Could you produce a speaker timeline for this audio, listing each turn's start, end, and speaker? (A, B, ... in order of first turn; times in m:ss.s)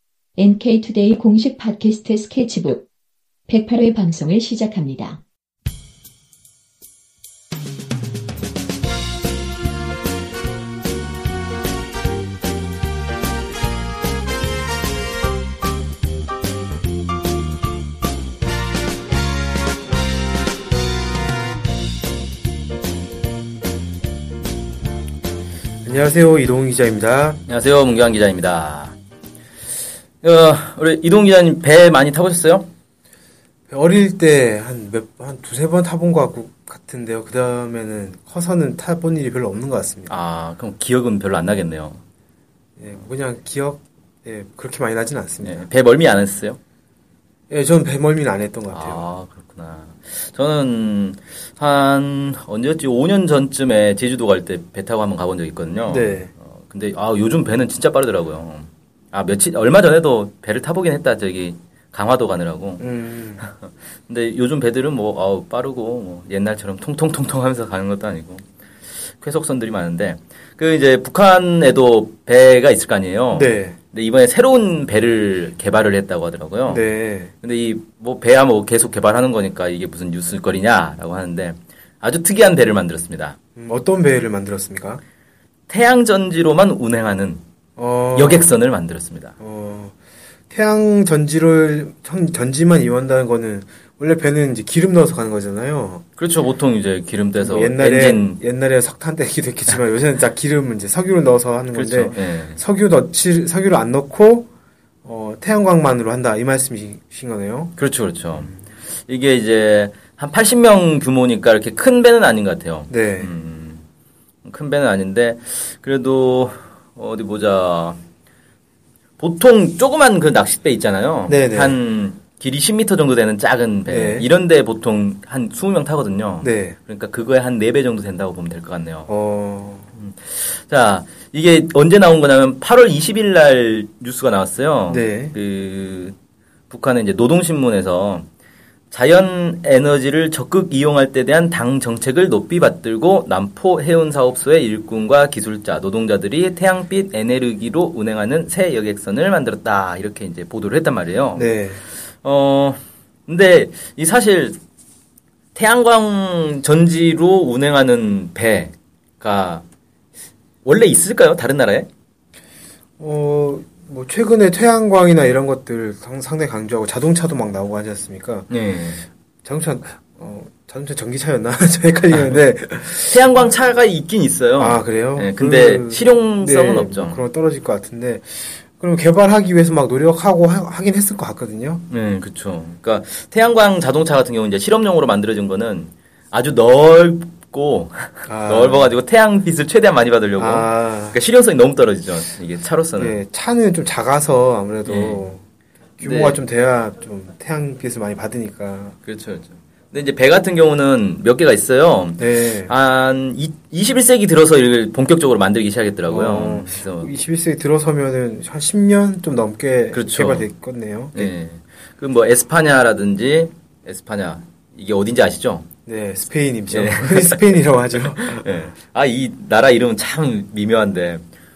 0:00.4-0:02.9 A
0:03.5-0:05.2 A
0:25.8-0:27.4 B
0:27.5-0:29.0 C
0:30.2-0:32.7 C
0:33.7-0:40.2 B
0:40.1-0:42.0 C
0:42.8-0:45.7 B
0:45.4-0:46.6 C
0:47.5-0:49.1 B
0:48.7-1:02.9 C
0:55.9-0:56.3 B
1:02.8-1:03.5 B
1:03.4-1:08.4 C
1:09.2-1:16.9 C
1:13.3-1:13.8 B
1:16.7-1:17.3 B
1:17.4-1:23.4 C
1:23.6-1:25.0 B
1:25.7-1:27.4 C
1:27.8-1:28.5 B
1:28.1-1:29.4 C
1:29.4-1:29.9 B
1:30.5-1:36.0 B
1:36.2-1:38.4 C
1:37.4-1:44.5 B
1:41.7-1:42.6 C
1:45.0-1:47.8 B
1:47.8-1:48.5 C
1:49.1-1:53.8 C
1:52.9-1:53.3 B
1:54.4-1:58.0 C
1:59.2-2:09.1 C
2:01.3-2:01.8 B
2:03.9-2:04.3 B
2:06.4-2:06.8 B
2:09.1-2:09.9 B
2:10.0-2:16.2 C
2:14.9-2:15.4 B
2:16.7-2:18.3 C
2:18.9-2:31.5 C
2:31.3-2:31.8 B
2:32.2-2:34.6 C
2:35.6-2:39.6 C
2:40.6-2:41.9 C
2:43.0-2:48.5 B
2:48.5-2:49.0 C
2:49.4-2:53.4 B
2:53.1-2:57.2 C
2:54.6-3:01.9 B
3:01.9-3:13.2 C
3:08.3-3:09.0 B
3:10.4-3:11.2 B
3:13.0-3:15.4 B
3:14.9-3:15.2 C
3:16.0-3:19.0 B
3:16.0-3:16.4 C
3:19.0-3:27.1 C
3:22.2-3:22.7 B
3:26.1-3:31.3 B
3:29.9-3:30.5 C
3:31.1-3:35.7 C
3:35.9-3:38.5 B
3:36.7-3:37.6 C
3:38.1-3:41.2 C